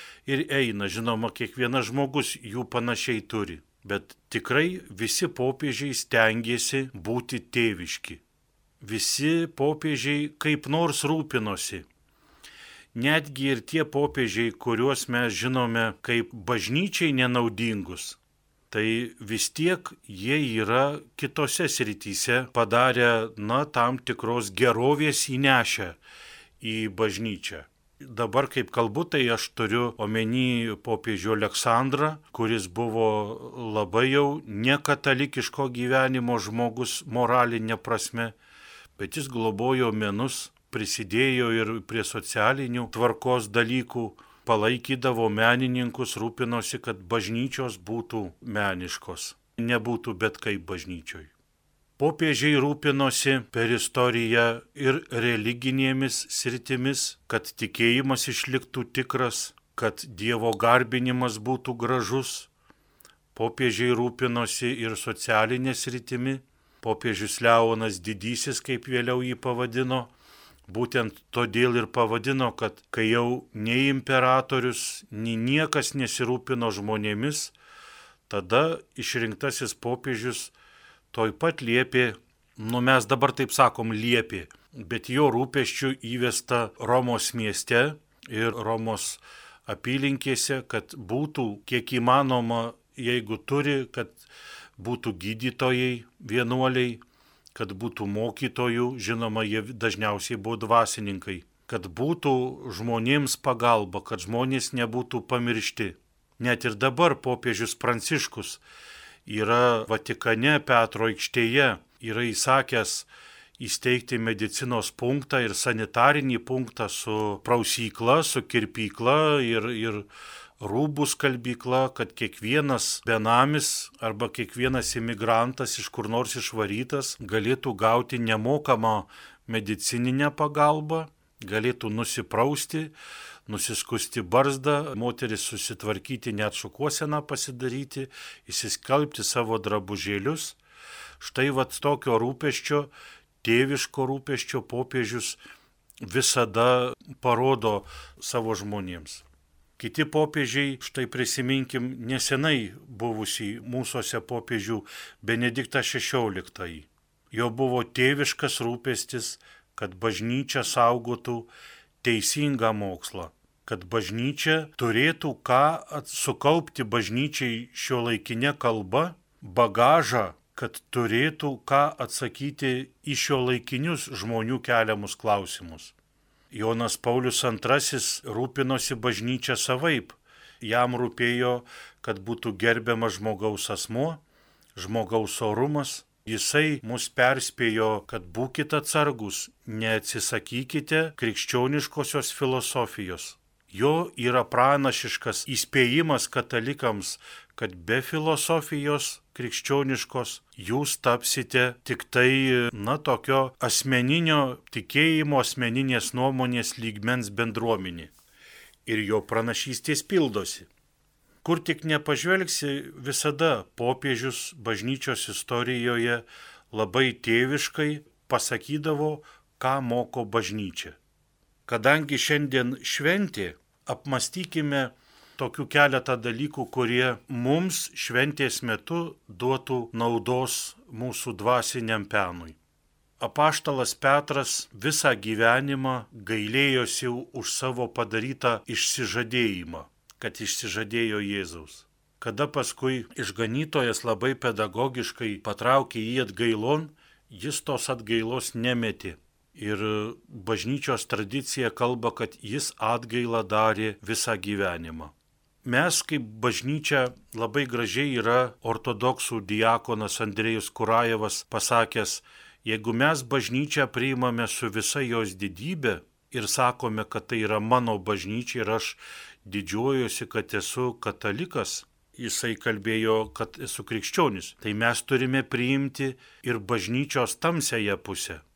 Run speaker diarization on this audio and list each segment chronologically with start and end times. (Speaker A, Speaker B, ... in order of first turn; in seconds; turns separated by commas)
Speaker A: 0.2-8.2, Speaker A: 8.8-11.8, Speaker A: 12.9-18.2, Speaker A: 18.7-26.0, Speaker A: 26.6-38.3, Speaker A: 39.0-51.3, Speaker A: 52.0-62.5, Speaker A: 63.3-70.1, Speaker A: 70.7-77.5, Speaker A: 78.3-80.5, Speaker A: 81.1-94.2, Speaker A: 94.8-97.0, Speaker A: 97.5-108.6, Speaker A: 109.2-120.1, Speaker A: 120.6-132.9, Speaker A: 133.5-140.6, Speaker A: 141.2-142.9, Speaker A: 143.4-145.4, Speaker A: 146.0-149.2, Speaker A: 149.8-161.5, Speaker A: 162.0-175.9, Speaker A: 176.5-184.2, Speaker A: 184.8-208.1, Speaker A: 208.8-210.7, Speaker A: 211.4-221.0, Speaker A: 221.7-232.6, Speaker A: 233.2-255.1, Speaker A: 255.6-278.4